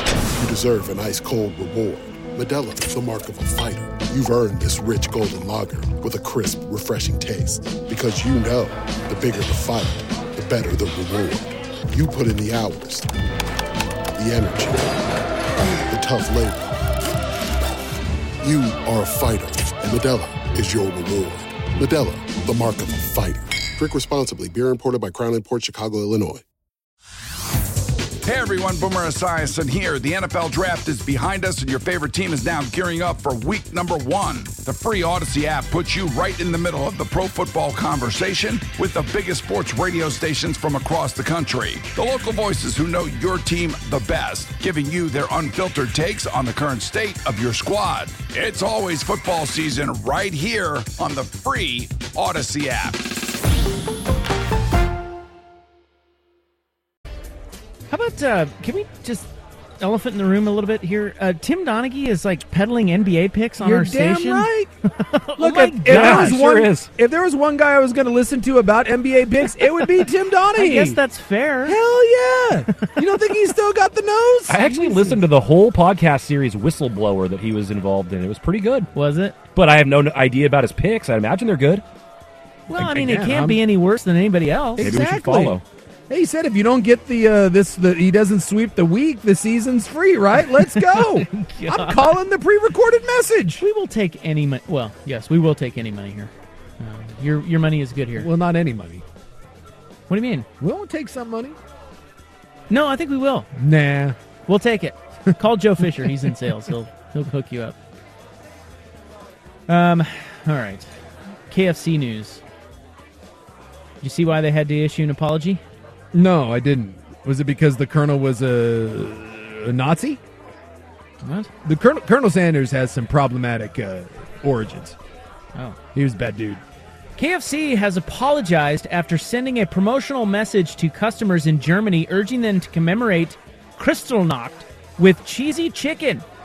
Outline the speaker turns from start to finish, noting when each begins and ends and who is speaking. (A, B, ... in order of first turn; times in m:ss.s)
0:00.4-0:13.1 A
0:14.2-0:15.0 A
0:15.9-0:16.7 A
0:18.4-0:26.4 A
0:28.2-0:53.0 B
0:57.9-0:59.3 C
0:59.8-1:06.4 C
1:03.6-1:04.7 D
1:05.4-1:11.0 D
1:05.8-1:06.9 E
1:10.5-1:11.8 C
1:11.6-1:14.6 D
1:12.8-1:13.2 C
1:14.5-1:18.9 E
1:14.6-1:15.2 C
1:18.9-1:19.4 C
1:19.5-1:21.8 E
1:22.7-1:25.5 C
1:22.7-1:23.6 D
1:24.8-1:25.6 D
1:24.8-1:25.6 E
1:26.1-1:33.6 D
1:30.5-1:32.2 C
1:33.6-1:38.3 C
1:38.2-1:39.0 D
1:40.1-1:40.5 C
1:40.6-1:41.6 D
1:42.7-1:43.5 C
1:43.6-1:44.2 D
1:44.5-1:47.8 C
1:49.7-1:50.9 C
1:51.5-1:52.4 C
1:54.0-1:55.6 C
1:56.1-2:00.2 D
2:01.2-2:01.5 C
2:01.6-2:05.0 D
2:05.9-2:06.6 D
2:07.2-2:16.2 C